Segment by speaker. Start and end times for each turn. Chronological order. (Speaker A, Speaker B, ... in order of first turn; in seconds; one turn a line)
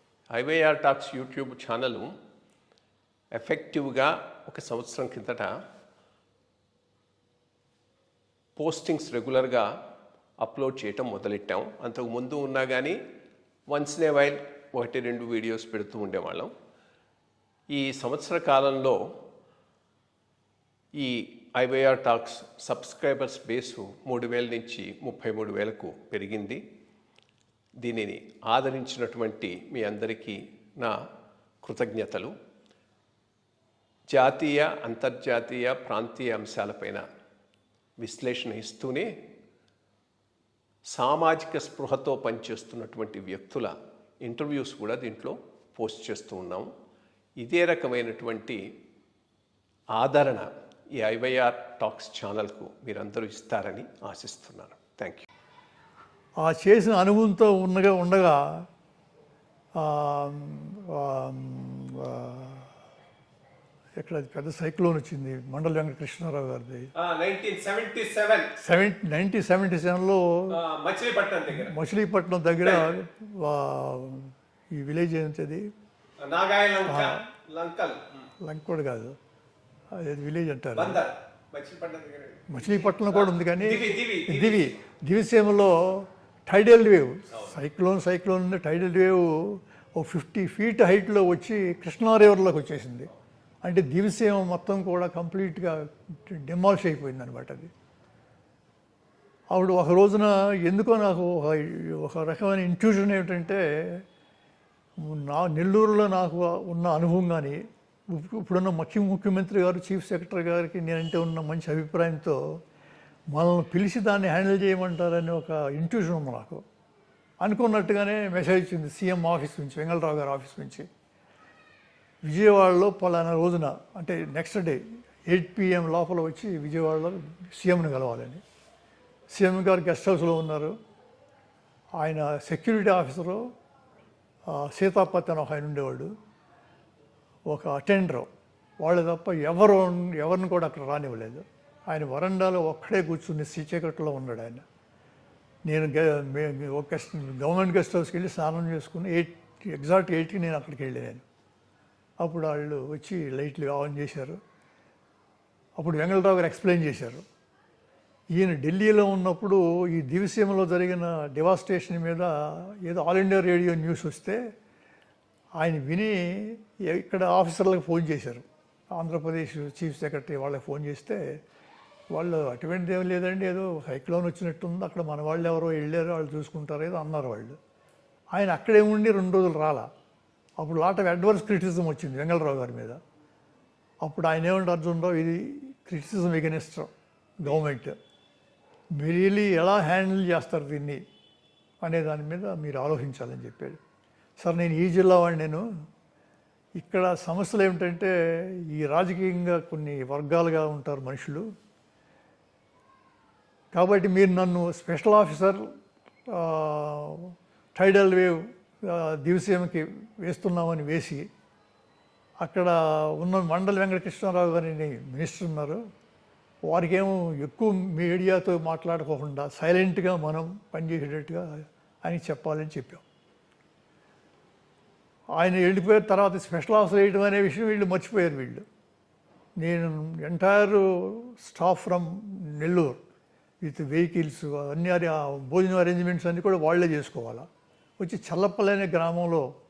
Speaker A: 0.3-2.1
Speaker A: 3.3-5.6
Speaker A: 8.6-9.7
Speaker A: 10.4-13.0
Speaker A: 13.7-16.5
Speaker A: 17.7-19.0
Speaker A: 21.0-26.6
Speaker A: 27.8-31.0
Speaker A: 31.6-32.3
Speaker A: 34.1-37.0
Speaker A: 38.0-39.2
Speaker A: 40.9-46.7
Speaker A: 47.4-48.6
Speaker A: 49.9-55.3
Speaker B: 56.4-58.6
Speaker B: 59.8-62.7
Speaker B: 64.0-66.9
Speaker A: 67.0-68.6
Speaker B: 68.6-70.6
Speaker A: 70.5-71.8
Speaker B: 71.5-75.6
Speaker A: 76.2-78.2
Speaker B: 76.8-77.3
Speaker B: 78.4-79.2
Speaker B: 79.9-81.0
Speaker A: 80.8-82.6
Speaker B: 82.5-93.1
Speaker A: 83.1-84.5
Speaker B: 93.6-97.7
Speaker B: 99.5-104.0
Speaker B: 105.0-112.4
Speaker B: 113.3-116.6
Speaker B: 117.4-120.9
Speaker B: 122.3-128.4
Speaker B: 129.3-130.8
Speaker B: 132.0-133.5
Speaker B: 134.5-136.1
Speaker B: 137.5-138.3
Speaker B: 138.8-144.6
Speaker B: 145.7-151.2
Speaker B: 152.2-154.4
Speaker B: 155.8-157.2
Speaker B: 158.3-164.4
Speaker B: 165.6-171.4
Speaker B: 172.1-177.6
Speaker B: 178.3-179.9
Speaker B: 180.6-183.0
Speaker B: 184.0-188.0
Speaker B: 188.9-191.0
Speaker B: 191.8-193.8
Speaker B: 194.4-195.7
Speaker B: 196.8-201.4
Speaker B: 203.7-205.6
Speaker B: 206.3-211.2
Speaker B: 212.4-215.8
Speaker B: 216.7-223.0
Speaker B: 225.4-228.6
Speaker B: 229.6-233.0
Speaker B: 233.6-237.4
Speaker B: 238.0-239.5